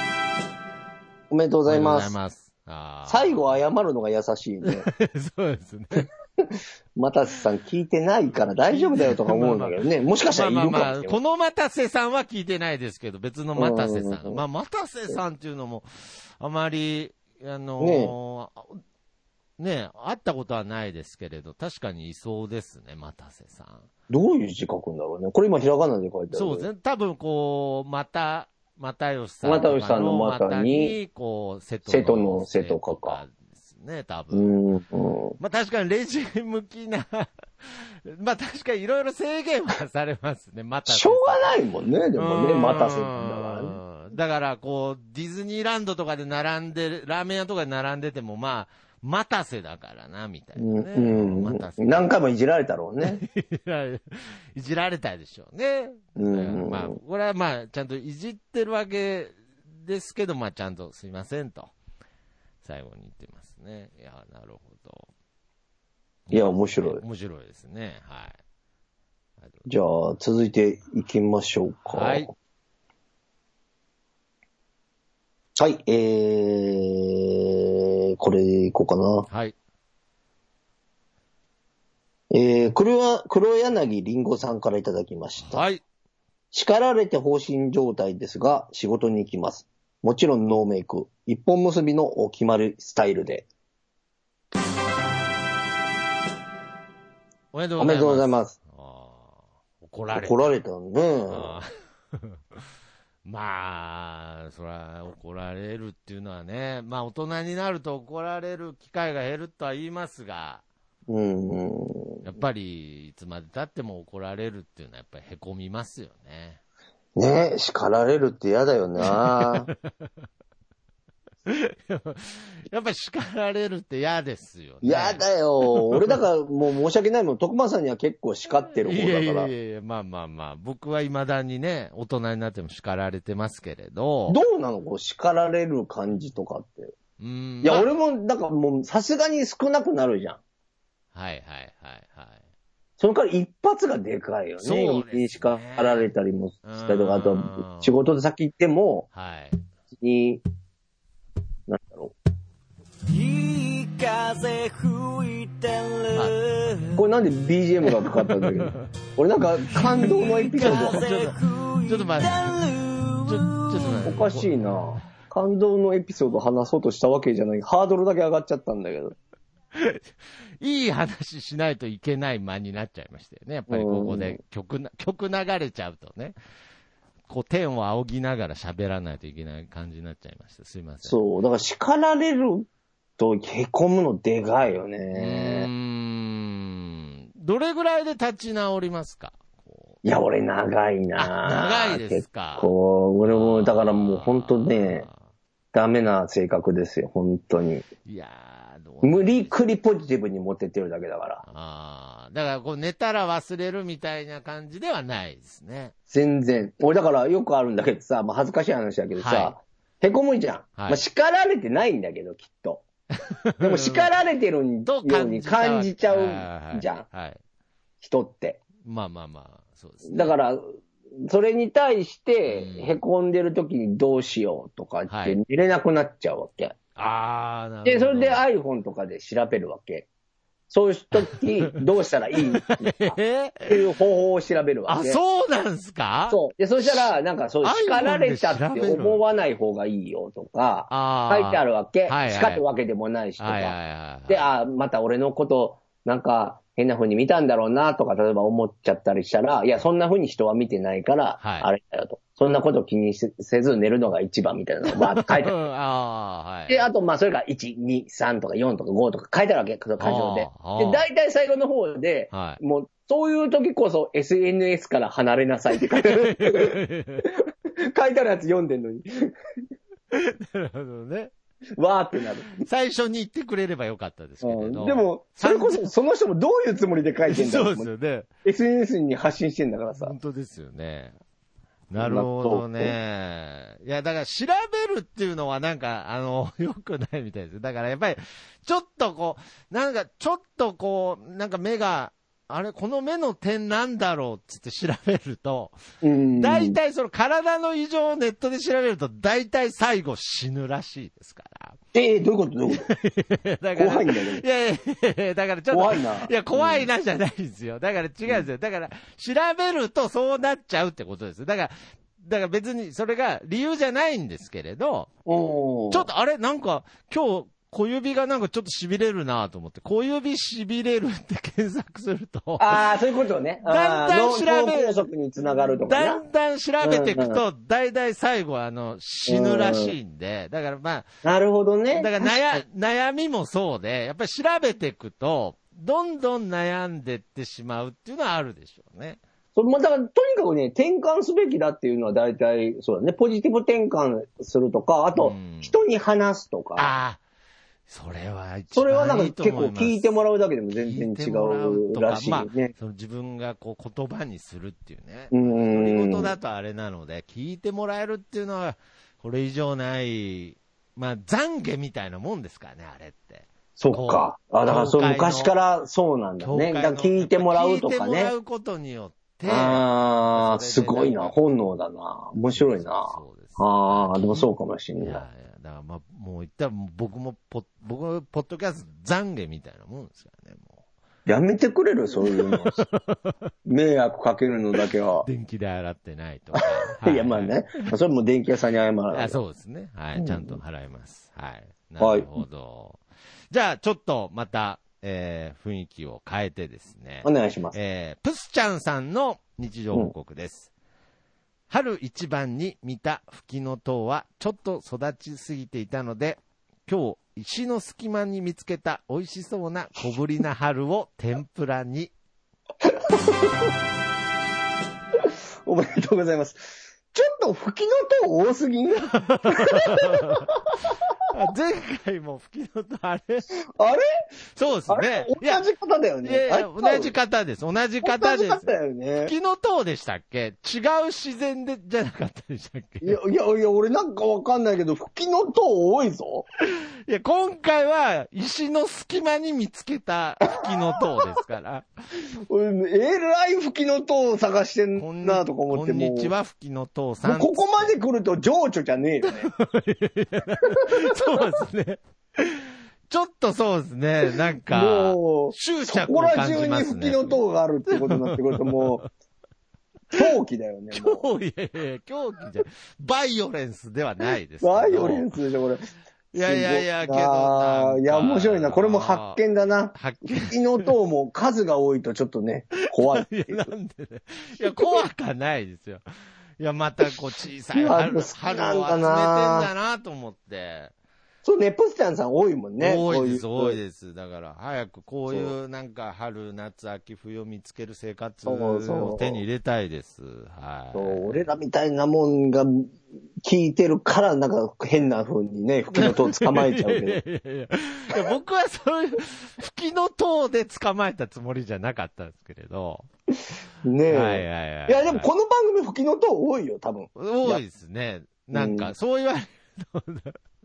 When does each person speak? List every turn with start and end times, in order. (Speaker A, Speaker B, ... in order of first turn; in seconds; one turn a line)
Speaker A: 1.3-2.1
Speaker B: 1.7-3.4
Speaker A: 3.0-4.9
Speaker B: 4.6-6.1
Speaker A: 7.0-11.2
Speaker B: 8.3-18.8
Speaker A: 13.6-14.4
Speaker A: 17.8-18.1
Speaker B: 19.6-23.9
Speaker A: 24.1-26.7
Speaker B: 26.3-34.5
Speaker A: 29.4-30.9
Speaker A: 31.9-33.2
Speaker A: 34.3-35.4
Speaker B: 35.4-41.6
Speaker A: 40.9-43.8
Speaker B: 42.2-52.1
Speaker A: 50.6-53.2
Speaker B: 53.0-61.7
Speaker A: 56.2-57.0
Speaker B: 62.6-65.1
Speaker B: 66.3-68.4
Speaker A: 66.3-67.0
Speaker A: 69.7-72.3
Speaker B: 71.9-72.3
Speaker A: 75.6-79.3
Speaker B: 79.3-79.5
Speaker A: 82.3-85.6
Speaker B: 85.5-85.8
Speaker A: 86.5-93.5
Speaker B: 97.5-100.5
Speaker A: 97.8-98.5
Speaker A: 100.1-101.5
Speaker B: 101.3-102.6
Speaker B: 103.2-110.6
Speaker A: 111.1-112.2
Speaker B: 112.2-116.6
Speaker A: 117.2-119.7
Speaker B: 119.0-120.1
Speaker B: 121.5-126.2
Speaker A: 124.8-129.5
Speaker B: 128.8-134.4
Speaker A: 134.3-136.9
Speaker B: 137.2-137.9
Speaker A: 137.6-140.4
Speaker B: 141.1-142.4
Speaker A: 143.0-149.1
Speaker B: 144.6-146.1
Speaker B: 146.6-147.9
Speaker B: 149.1-149.6
Speaker A: 150.0-150.4
Speaker A: 151.7-152.1
Speaker C: 153.1-157.0
Speaker A: 156.9-161.0
Speaker B: 157.8-158.9
Speaker B: 159.7-162.6
Speaker C: 160.0-164.1
Speaker B: 163.2-164.8
Speaker A: 164.0-169.1
Speaker B: 169.7-170.1
Speaker B: 170.6-176.3
Speaker A: 173.7-174.4
Speaker B: 177.3-181.2
Speaker A: 181.0-182.7
Speaker A: 183.2-185.7
Speaker B: 185.1-190.0
Speaker A: 190.0-195.1
Speaker B: 191.2-192.7
Speaker B: 193.3-195.1
Speaker A: 195.7-197.8
Speaker B: 198.0-199.5
Speaker A: 199.0-201.4
Speaker B: 201.4-205.9
Speaker A: 206.1-212.8
Speaker B: 209.2-209.6
Speaker B: 210.8-211.0
Speaker B: 213.4-214.1
Speaker A: 213.6-217.0
Speaker B: 214.8-217.4
Speaker A: 218.0-218.6
Speaker B: 218.8-220.3
Speaker A: 220.1-226.7
Speaker B: 222.5-223.0
Speaker B: 225.1-225.4
Speaker B: 226.9-228.4
Speaker A: 227.8-230.1
Speaker A: 230.7-235.2
Speaker B: 231.1-231.8
Speaker B: 232.4-233.8
Speaker B: 234.9-237.1
Speaker A: 236.3-243.8
Speaker B: 237.6-239.2
Speaker B: 240.9-242.6
Speaker B: 243.4-244.4
Speaker A: 244.3-255.6
Speaker B: 251.4-251.7
Speaker B: 254.9-256.9
Speaker A: 256.7-269.3
Speaker B: 260.0-261.0
Speaker B: 262.3-262.6
Speaker B: 265.7-267.3
Speaker B: 270.1-271.3
Speaker A: 271.8-272.7
Speaker B: 272.6-275.9
Speaker A: 274.4-277.9
Speaker B: 277.3-278.3
Speaker A: 278.4-280.1
Speaker B: 280.0-281.1
Speaker B: 281.9-295.8
Speaker A: 282.0-282.9
Speaker A: 296.0-296.8
Speaker B: 296.4-301.8
Speaker A: 301.9-302.9
Speaker B: 302.7-315.1
Speaker A: 303.8-304.4
Speaker A: 305.7-306.9
Speaker A: 315.2-316.1
Speaker B: 315.9-322.9
Speaker A: 322.6-326.2
Speaker B: 323.6-331.1
Speaker A: 326.8-327.4
Speaker A: 329.3-329.9
Speaker A: 331.2-332.6
Speaker B: 331.9-339.2
Speaker A: 339.5-346.9
Speaker B: 345.2-345.7
Speaker B: 346.8-347.2
Speaker B: 347.9-350.1
Speaker A: 348.7-352.7
Speaker B: 350.7-365.5
Speaker A: 355.3-356.3
Speaker A: 363.8-368.3
Speaker B: 366.4-371.4
Speaker A: 369.4-375.2
Speaker B: 372.5-380.8
Speaker A: 381.3-382.9
Speaker B: 382.3-383.3
Speaker A: 383.6-385.3
Speaker B: 385.2-387.6
Speaker A: 386.5-389.4
Speaker B: 389.1-400.7
Speaker A: 390.1-390.6
Speaker A: 392.0-392.3
Speaker A: 397.2-397.8
Speaker B: 401.7-412.1
Speaker A: 412.8-413.7
Speaker A: 415.2-421.3
Speaker B: 419.0-420.5
Speaker B: 421.3-423.5
Speaker A: 423.7-424.1
Speaker B: 424.5-425.6
Speaker A: 424.9-427.1
Speaker B: 426.2-433.2
Speaker A: 428.0-429.3
Speaker A: 433.0-436.4
Speaker B: 436.6-441.9
Speaker A: 442.5-446.3
Speaker B: 445.0-447.9
Speaker A: 447.2-449.5
Speaker B: 449.2-457.4
Speaker A: 450.6-451.1
Speaker A: 454.6-459.0
Speaker B: 457.9-459.1
Speaker A: 460.1-461.3
Speaker B: 460.9-465.3
Speaker A: 464.6-465.8
Speaker A: 466.3-473.7
Speaker B: 466.3-469.4
Speaker B: 469.9-470.9
Speaker B: 472.9-476.0
Speaker A: 474.6-475.1
Speaker B: 476.6-480.9
Speaker A: 477.7-479.7
Speaker A: 481.4-483.8
Speaker B: 482.8-491.5
Speaker A: 485.3-485.5
Speaker A: 488.4-489.4
Speaker A: 490.9-497.2
Speaker B: 495.9-503.1
Speaker A: 503.8-507.6
Speaker B: 504.1-505.3
Speaker B: 507.1-510.4
Speaker A: 508.5-508.9